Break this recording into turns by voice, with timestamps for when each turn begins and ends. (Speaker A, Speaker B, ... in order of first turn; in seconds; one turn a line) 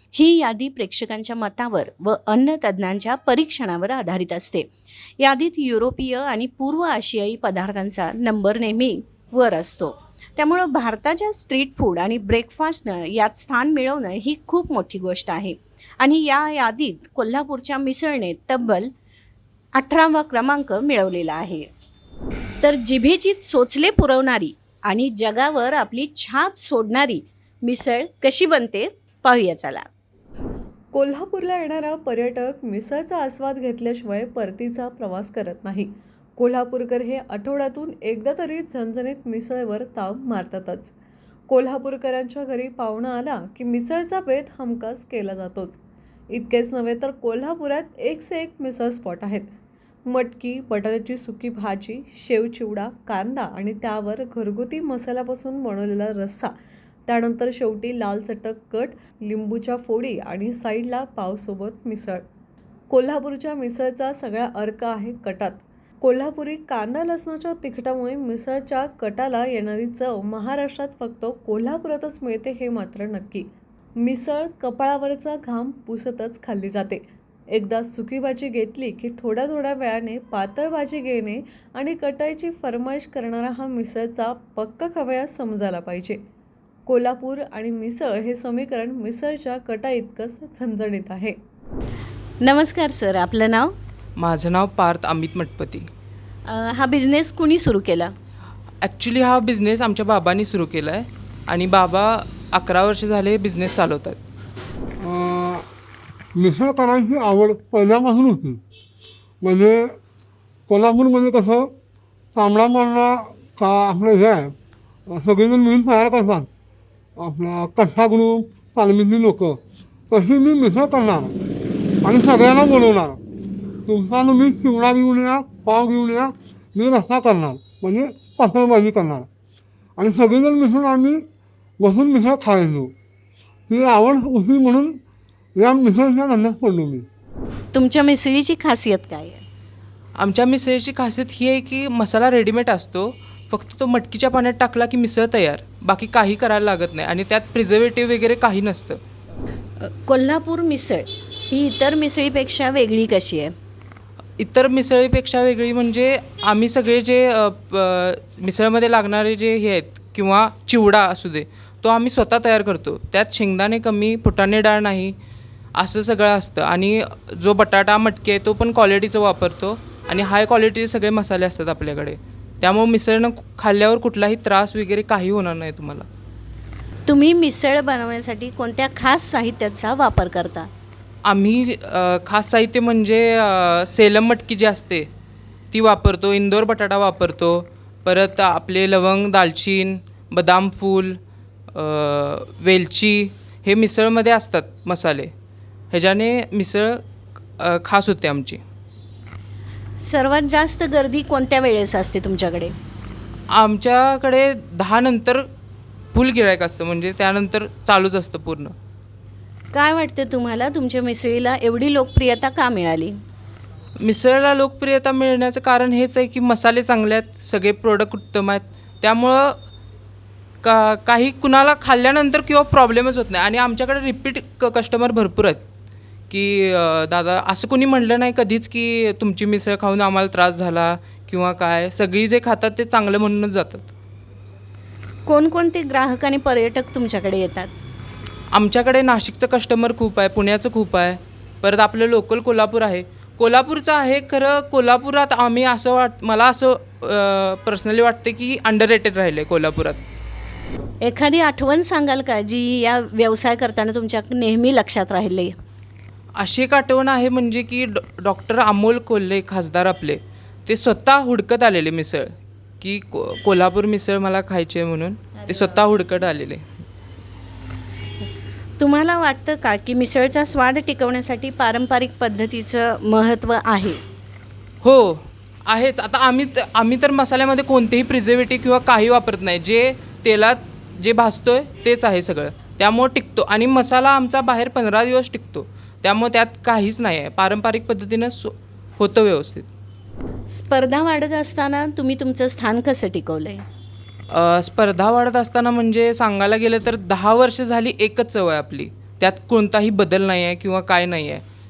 Speaker A: 0.1-4.7
Speaker A: 5.2-18.9
Speaker A: 19.8-21.7
Speaker A: 22.6-29.9
Speaker B: 30.9-40.9
Speaker B: 41.5-49.5
Speaker B: 50.1-56.5
Speaker B: 57.1-62.2
Speaker B: 62.9-86.2
Speaker B: 86.9-91.4
Speaker A: 92.4-93.7
Speaker C: 94.2-95.9
Speaker A: 96.5-98.1
Speaker C: 98.8-104.2
Speaker D: 105.0-105.6
Speaker D: 106.4-108.6
Speaker D: 109.4-109.8
Speaker D: 110.7-111.7
Speaker D: 112.3-114.5
Speaker D: 115.1-116.5
Speaker D: 117.2-119.6
Speaker D: 120.1-121.3
Speaker D: 122.0-123.2
Speaker D: 123.9-129.3
Speaker D: 130.0-131.2
Speaker D: 131.8-132.9
Speaker D: 133.7-135.0
Speaker D: 135.6-137.1
Speaker A: 137.7-139.4
Speaker C: 140.2-149.0
Speaker A: 149.8-153.5
Speaker C: 154.4-165.2
Speaker C: 165.8-176.1
Speaker A: 177.1-180.7
Speaker C: 181.3-185.1
Speaker C: 185.7-191.2
Speaker C: 191.7-195.3
Speaker C: 195.9-197.0
Speaker C: 197.6-198.6
Speaker A: 200.0-202.7
Speaker C: 203.5-205.5
Speaker C: 206.1-208.7
Speaker A: 209.7-213.2
Speaker C: 214.0-219.6
Speaker C: 220.6-225.6
Speaker C: 226.3-233.9
Speaker A: 235.3-237.7
Speaker C: 238.5-250.0
Speaker A: 251.0-255.5
Speaker C: 256.4-266.7
Speaker A: 265.5-265.8
Speaker A: 268.8-274.0
Speaker C: 274.8-289.7
Speaker A: 290.5-293.6
Speaker C: 294.3-301.4